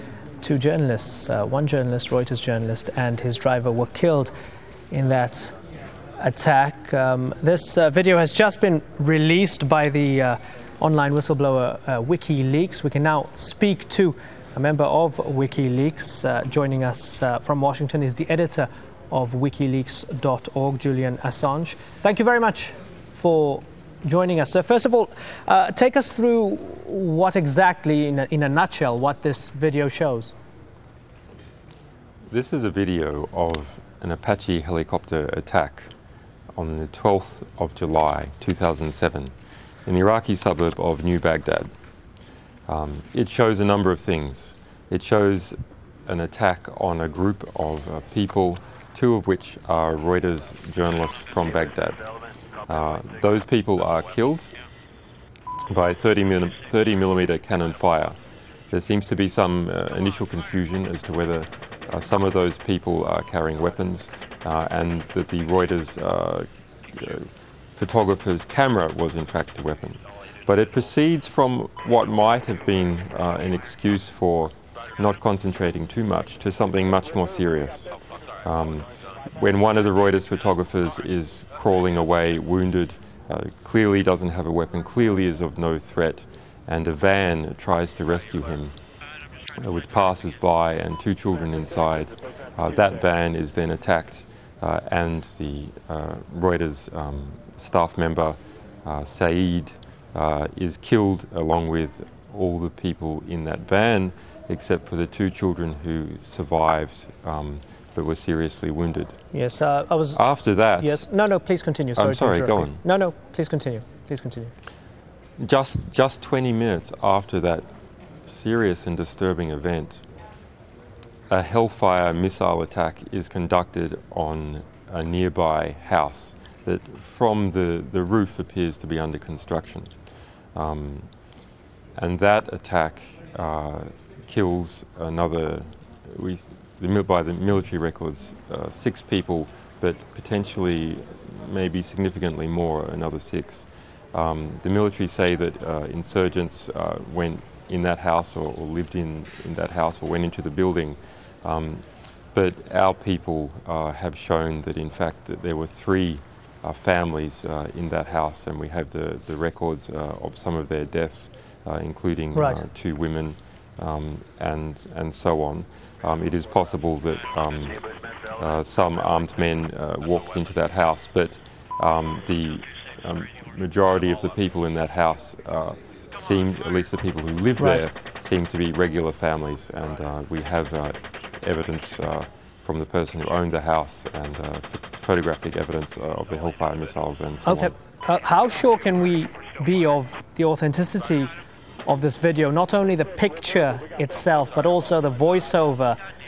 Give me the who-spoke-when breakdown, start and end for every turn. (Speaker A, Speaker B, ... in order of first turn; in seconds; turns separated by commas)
Speaker A: 0.4-4.3, Speaker A: 4.9-5.5, Speaker A: 6.2-30.3, Speaker B: 32.3-35.9, Speaker B: 36.5-39.3, Speaker B: 39.9-41.7, Speaker B: 42.7-52.0, Speaker B: 52.7-54.5, Speaker B: 55.7-58.2, Speaker B: 58.7-77.9, Speaker B: 78.4-88.7, Speaker B: 89.6-109.2, Speaker A: 109.3-110.2, Speaker B: 110.1-111.0, Speaker A: 110.8-114.5, Speaker B: 112.0-112.8, Speaker B: 115.4-117.7, Speaker B: 118.2-120.0, Speaker B: 121.3-129.9, Speaker B: 130.5-131.1, Speaker B: 131.9-167.8, Speaker A: 162.3-162.6, Speaker B: 168.3-187.7, Speaker A: 177.6-177.8, Speaker A: 187.4-191.3, Speaker A: 191.8-196.0